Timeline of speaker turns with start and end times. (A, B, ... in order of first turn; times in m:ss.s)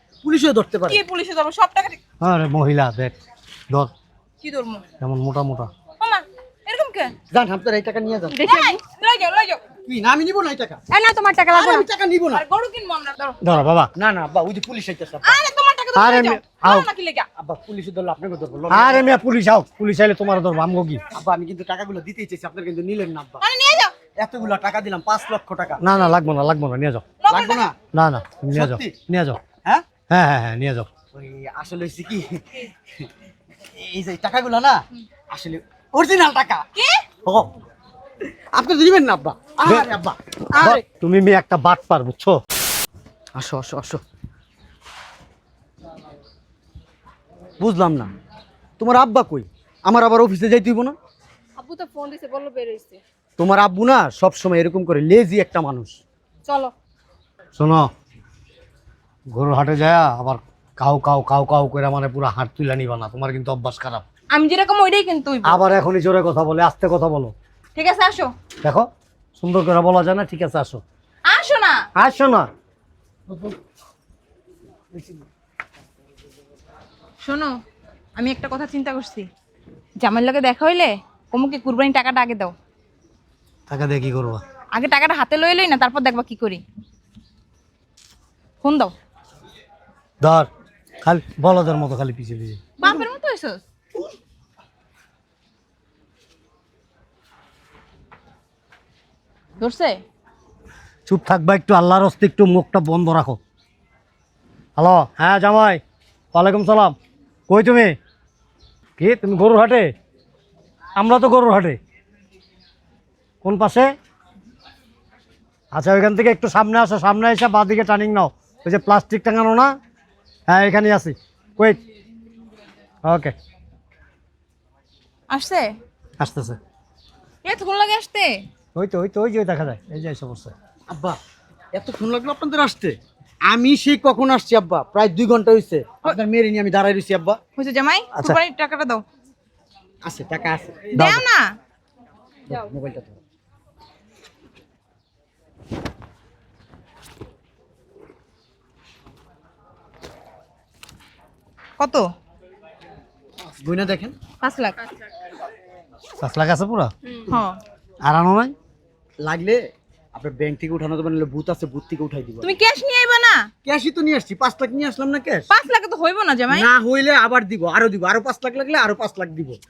0:00.2-0:01.0 A
0:00.9-0:02.0 B
0:02.2-0:03.2 C
0:04.4-0:04.8 B
0:05.0-0:05.7 C
0:06.0-0:07.1 B
0:07.3-0:08.4 A
0:08.3-0:08.8 D
0:08.4-0:09.6 B
0:09.8-0:10.8 A
0:10.9-0:11.8 D
0:11.5-0:12.4 A
0:12.3-0:13.4 B
0:13.4-0:13.9 C
0:14.0-0:15.4 A
0:15.2-0:17.3 B
0:16.0-0:16.9 C
0:17.4-0:19.0 A
0:18.7-0:21.0 C
0:21.1-0:23.4 A
0:23.4-0:23.9 B
0:24.2-0:25.8 A
0:25.8-0:27.0 C
0:27.2-0:27.7 B
0:27.3-0:27.7 A
0:27.9-0:29.4 C
0:28.5-0:28.9 A
0:30.1-0:30.9 C
0:31.1-0:33.1 A
0:33.7-0:36.6 A
0:36.7-0:37.0 B
0:37.2-0:37.5 A
0:38.5-0:40.2 A
0:39.6-0:39.9 C
0:40.5-0:40.8 B
0:40.6-0:42.4 C
0:43.4-0:44.0 A
0:47.6-0:48.1 A
0:48.8-0:51.0 A
0:51.6-0:53.0 D
0:53.4-0:56.0 A
0:56.4-0:56.7 D
0:57.6-0:57.9 C
0:59.3-1:04.0 C
1:04.3-1:05.6 B
1:05.4-1:07.3 C
1:07.8-1:08.3 B
1:08.6-1:10.8 C
1:11.3-1:11.8 B
1:12.0-1:12.5 C
1:17.2-1:17.5 B
1:18.2-1:19.3 B
1:20.0-1:22.5 B
1:23.7-1:24.4 C
1:24.7-1:26.6 B
1:28.6-1:28.9 B
1:30.2-1:30.5 C
1:31.0-1:32.9 C
1:32.8-1:33.6 B
1:39.6-1:40.0 B
1:41.1-1:43.4 C
1:44.8-1:45.8 C
1:46.3-1:46.9 C
1:47.5-1:47.9 C
1:49.0-1:49.9 C
1:51.0-1:51.8 C
1:53.4-1:53.9 C
1:55.7-1:59.7 C
2:00.5-2:01.8 C
2:03.0-2:03.3 C
2:05.3-2:05.7 B
2:06.2-2:06.6 C
2:07.4-2:08.4 B
2:08.7-2:10.5 C
2:10.9-2:11.2 A
2:11.7-2:13.0 A
2:13.5-2:17.4 A
2:17.6-2:19.0 B
2:20.0-2:20.9 A
2:20.9-2:21.2 C
2:20.9-2:21.5 B
2:22.5-2:23.2 A
2:31.8-2:32.1 B
2:33.6-2:34.2 A
2:34.4-2:34.8 B
2:36.2-2:36.9 C
2:37.3-2:37.6 B
2:38.0-2:38.5 C
2:39.2-2:39.6 A
2:40.1-2:42.5 A
2:42.4-2:43.5 B
2:43.6-2:45.5 A
2:45.5-2:46.7 B
2:46.5-2:49.6 A